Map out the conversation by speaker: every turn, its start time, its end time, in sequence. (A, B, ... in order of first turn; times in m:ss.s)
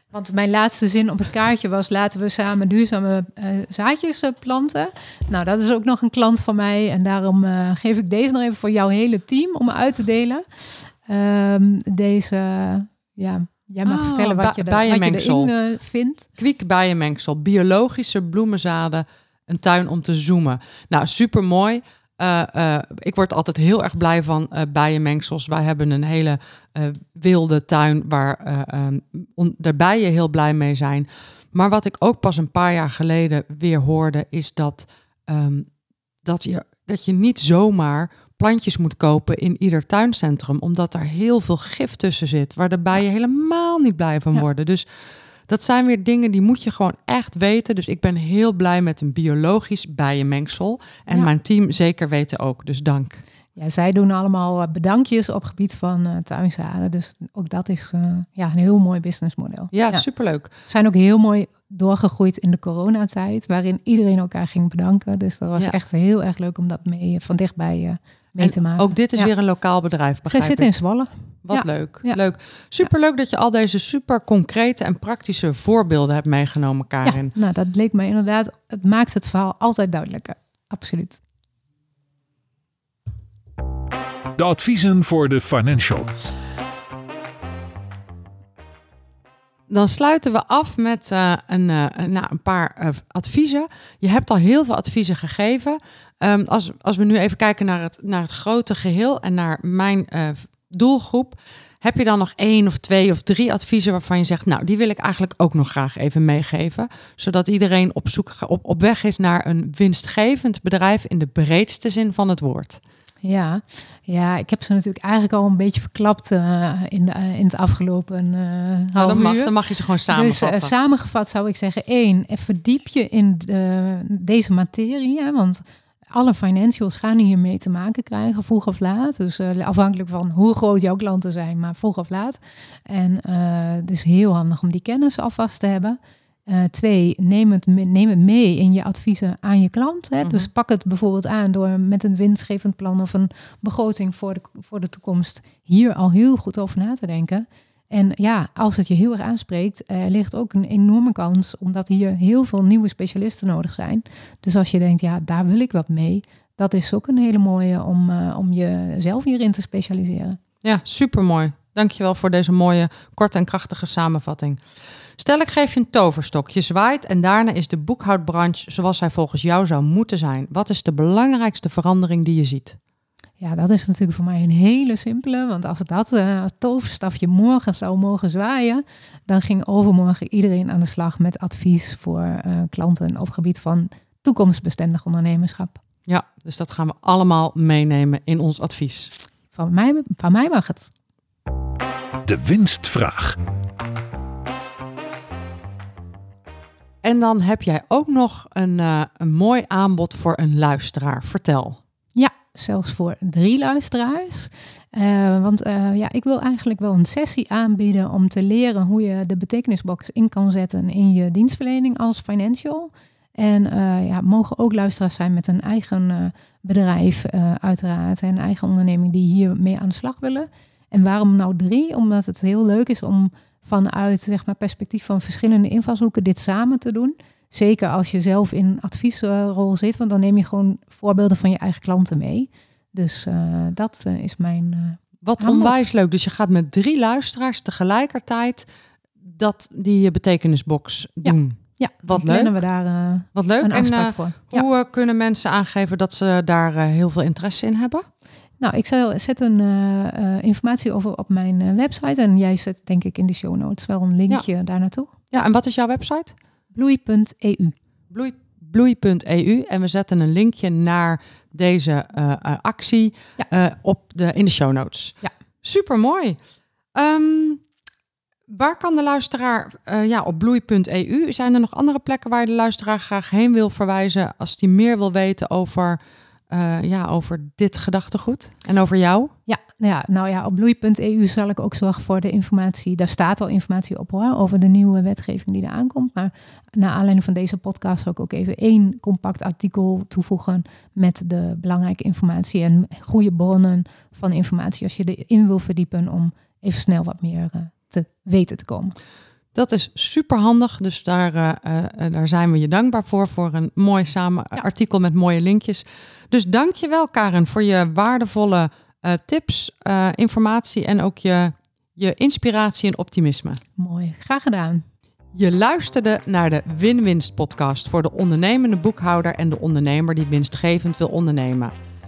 0:00.1-0:10.4 A
0:11.0-0:16.3 A
0:13.8-0:15.5 B
0:16.4-0:35.7 B
0:36.2-0:44.9 B
0:45.5-0:53.2 B
0:53.6-1:00.0 A
0:59.7-1:00.5 B
1:00.6-1:09.3 A
1:08.4-1:10.7 B
1:10.2-1:12.2 A
1:11.4-1:17.3 B
1:17.0-1:21.2 A
1:24.4-1:26.1 C
1:29.7-1:52.8 B
1:53.2-1:59.5 A
1:59.0-2:00.7 B
2:00.1-2:40.4 A
2:20.2-2:20.5 B
2:40.6-2:44.6 B
2:45.2-2:52.8 B
2:53.4-3:05.8 A
3:06.1-3:09.1 B
3:09.5-3:10.9 A
3:12.2-3:13.4 C
3:17.0-3:21.8 B
3:22.2-3:55.9 A
3:55.2-3:58.6 B
3:59.2-4:02.6 B
4:01.2-4:04.6 A
4:03.3-4:08.0 B
4:08.6-4:15.1 A
4:15.3-4:16.3 B
4:16.7-4:17.7 A
4:18.1-4:26.4 B
4:26.9-4:27.6 B
4:28.5-4:39.3 B
4:39.5-4:59.0 A
4:59.5-5:13.6 B
5:13.8-5:14.8 A
5:15.3-5:21.7 B